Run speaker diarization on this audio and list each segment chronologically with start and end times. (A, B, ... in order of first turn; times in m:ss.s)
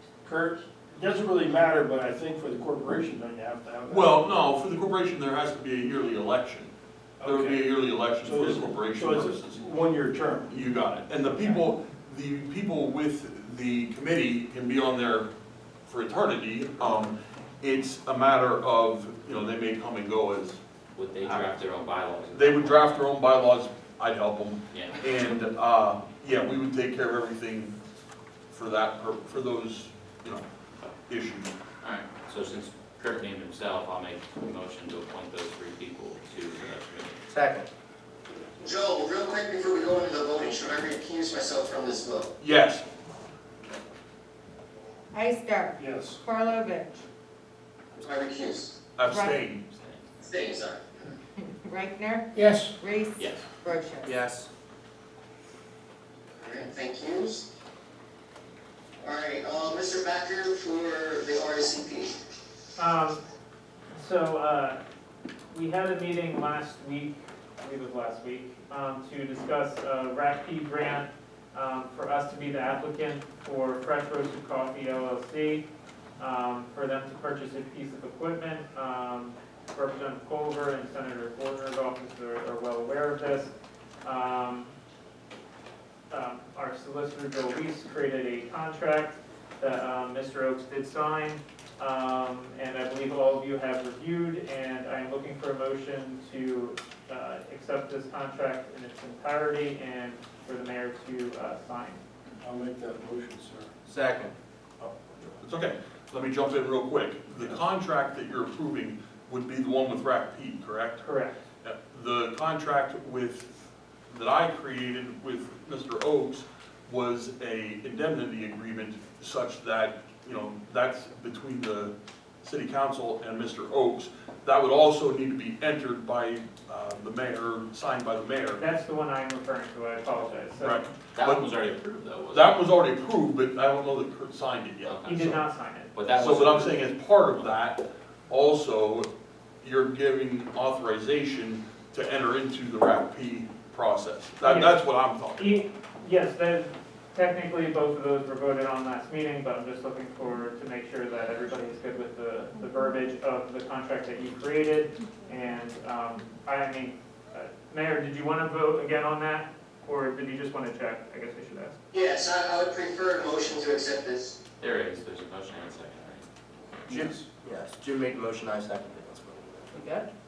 0:00.2-0:04.2 A
0:03.9-0:06.7 B
0:07.2-0:07.7 A
0:07.2-0:09.6 B
0:08.2-0:10.5 A
0:10.5-0:15.3 B
0:15.9-0:20.6 B
0:20.9-0:23.0 C
0:21.2-0:21.5 B
0:22.3-0:27.7 B
0:24.7-0:25.0 C
0:28.5-0:30.4 B
0:31.1-0:31.5 B
0:31.8-0:37.2 C
0:37.3-0:37.7 D
0:38.6-0:42.3 E
0:42.4-0:42.8 B
0:45.1-0:45.7 F
0:45.8-0:46.2 A
0:46.3-0:46.9 F
0:48.0-0:48.8 E
0:48.9-0:49.6 B
0:49.1-0:49.3 F
0:49.7-0:50.0 C
0:50.2-0:51.1 E
0:51.4-0:52.2 F
0:52.4-0:52.7 A
0:52.8-0:54.0 F
0:53.2-0:53.5 C
0:54.0-0:54.5 D
0:56.4-0:57.5 E
0:59.0-1:02.1 E
1:02.8-1:03.2 G
1:03.9-1:04.8 G
1:05.5-1:15.7 G
1:16.2-1:23.5 G
1:24.0-1:24.7 G
1:26.1-1:42.0 G
1:42.4-1:43.7 A
1:43.8-1:44.3 D
1:44.8-1:45.4 A
1:45.4-1:51.0 B
1:51.0-1:51.3 G
1:51.6-1:53.5 B
1:54.1-2:08.6 B
2:08.6-2:10.8 G
2:10.6-2:11.5 B
2:11.1-2:12.6 C
2:12.3-2:15.0 B
2:14.8-2:15.4 C
2:15.0-2:16.0 G
2:15.9-2:16.8 C
2:16.1-2:19.1 B
2:19.6-2:25.6 B
2:24.4-2:24.8 G
2:25.3-2:41.8 G
2:41.9-2:44.4 E
2:44.6-2:46.2 C
2:46.9-2:50.1 D
2:46.9-2:47.2 A